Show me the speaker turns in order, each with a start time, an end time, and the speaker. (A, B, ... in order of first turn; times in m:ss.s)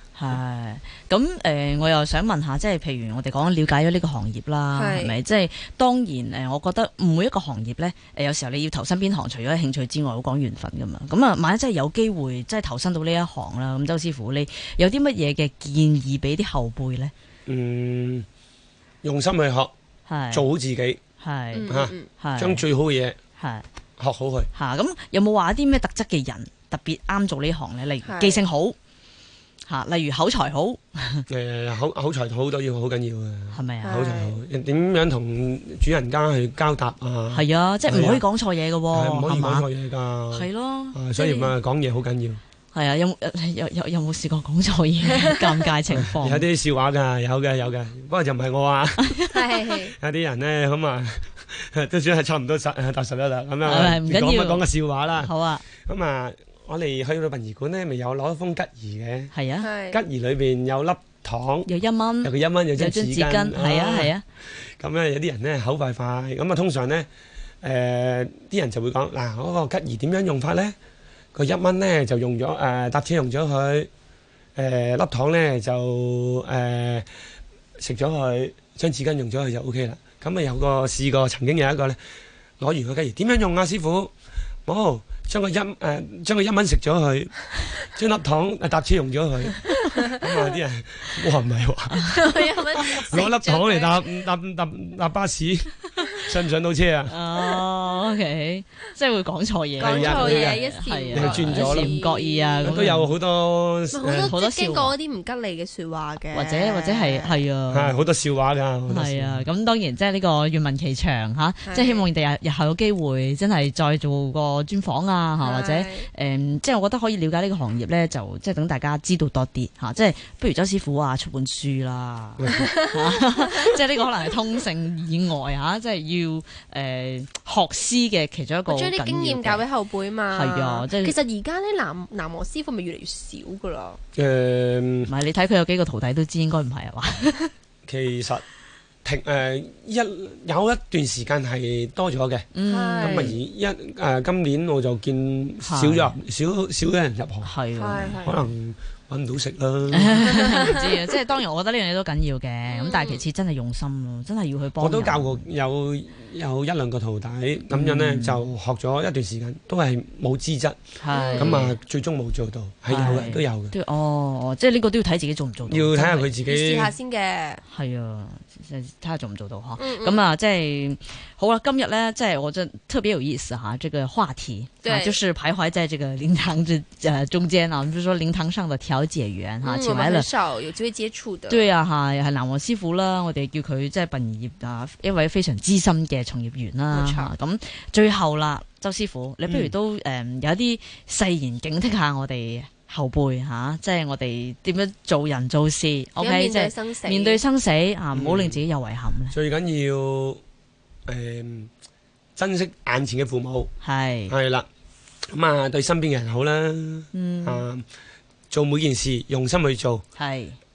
0:00.2-0:17.1 A
0:04.7-0:05.2 B
0:17.5-0:18.2 C
0:19.0-0:19.7 C
0:20.1-0:20.5 A
0:20.3-0:21.0 C
0:21.2-0:22.6 A
0:21.5-0:22.1 B
0:21.7-0:23.2 C
0:23.4-0:23.6 A
0:24.0-0:24.5 C
0:24.5-0:28.8 A
0:28.0-0:28.4 B
0:29.6-0:31.2 A
0:31.3-0:38.2 C
0:33.5-0:34.0 A
0:33.8-0:34.4 B
0:37.3-0:39.7 A
0:38.9-0:42.4 C
0:40.3-0:41.0 A
0:41.2-0:41.5 B
0:42.7-0:46.4 A
0:45.9-0:59.3 C
0:49.3-0:50.0 B
0:53.6-0:55.6 A
0:59.3-0:59.7 A
0:59.6-1:00.0 B
0:59.9-1:01.7 C
1:01.6-1:04.2 A
1:02.2-1:07.1 C
1:07.6-1:10.7 C
1:11.3-1:13.9 C
1:14.6-1:17.1 C
1:17.8-1:22.0 C
1:22.6-1:24.1 C
1:24.6-1:32.2 C
1:32.1-1:34.0 B
1:32.8-1:37.1 C
1:37.1-1:43.1 A
1:39.8-1:42.7 B
1:39.8-1:41.9 C
1:42.6-1:44.3 C
1:43.9-1:47.4 B
1:44.2-1:44.9 A
1:46.3-1:48.0 A
1:47.7-1:49.4 C
1:48.9-2:09.6 A
1:51.6-1:52.1 B
1:55.4-1:56.1 B
2:02.4-2:02.7 C
2:02.6-2:03.2 B
2:08.7-2:14.0 B
2:10.3-2:11.1 A
2:14.1-2:15.1 C
2:15.0-2:17.5 A
2:17.8-2:18.4 C
2:19.0-2:27.5 C
2:22.5-2:23.3 A
2:22.6-2:23.4 B
2:25.6-2:26.2 A
2:27.4-2:28.2 A
2:27.7-2:28.4 B
2:28.2-2:30.5 C
2:29.9-2:35.4 A
2:30.2-2:31.2 B
2:32.6-2:33.2 B
2:34.8-2:40.8 C
2:37.7-2:38.5 A
2:41.0-2:41.8 A
2:41.1-2:41.5 B
2:41.4-2:43.7 C
2:42.9-2:46.3 A
2:45.7-2:46.9 C
2:46.4-2:47.6 B
2:47.7-3:00.3 A
2:49.8-2:50.2 B
2:54.8-2:55.2 B
2:59.6-3:01.7 B
3:01.5-3:19.4 A
3:06.9-3:07.3 B
3:09.4-3:09.7 C
3:16.2-3:17.4 B
3:18.1-3:18.6 C
3:19.3-3:20.4 C
3:21.1-3:21.7 C
3:22.4-3:23.7 C
3:23.8-3:24.3 A
3:24.3-3:24.7 C
3:25.3-3:27.8 C
3:27.1-3:27.6 A
3:28.5-3:30.0 C
3:30.2-3:30.6 A